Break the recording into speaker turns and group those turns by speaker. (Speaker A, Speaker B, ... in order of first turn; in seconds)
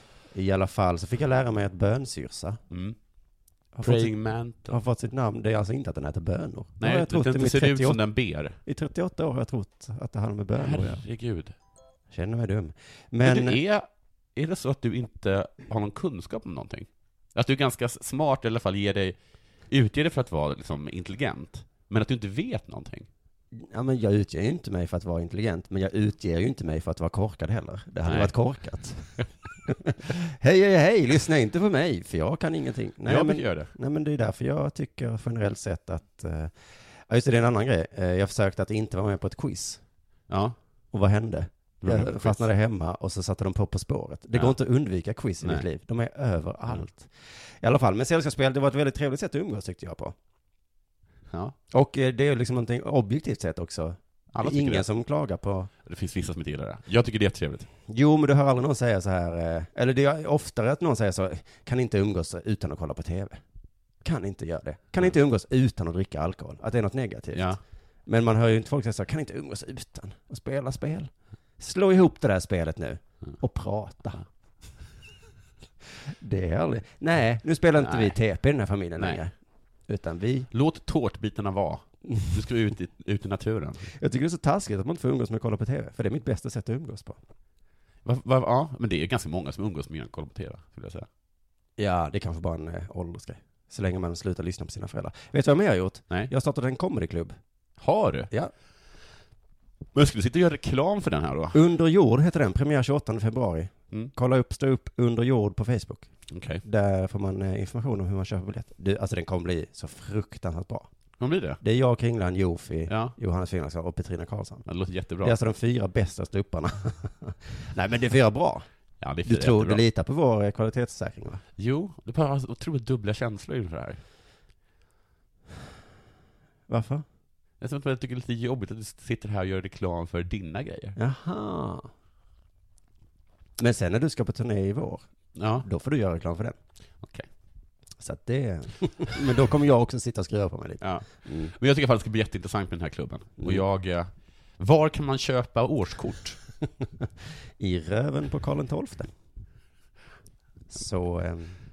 Speaker A: 0.3-2.6, 3.7-8.0, 8.7-11.0, 12.1-13.6, 23.5-29.1, 29.7-39.8, 40.9-50.1, 51.7-55.7, 57.9-63.4, 64.0-67.5, 68.1-74.2, 76.1-79.3, 79.9-80.5, 83.9-87.2, 91.8-97.4, 101.5-106.1, 106.6-110.9, 111.6-114.7, 115.2-118.7, 119.2-121.4, 126.7-127.0, 131.0-131.9, 133.6-135.0, 135.6-136.6, 138.0-141.5, 147.6-149.1, 150.7-151.6
Speaker B: 2.7-3.0, 3.8-4.8, 6.8-8.6, 10.6-11.5, 13.2-19.2, 19.7-23.1, 28.1-28.3, 33.0-33.7, 40.3-40.6, 41.8-42.5, 51.3-51.6, 54.3-54.9, 55.9-57.7, 67.3-67.6, 77.8-78.2, 80.5-83.9, 88.0-91.1, 97.8-98.3, 99.9-101.6, 106.3-106.6, 111.2-111.6, 112.9-113.2, 114.7-115.3, 119.0-119.8, 121.6-124.0, 127.6-131.0, 135.3-135.7, 137.0-137.3, 140.8-146.4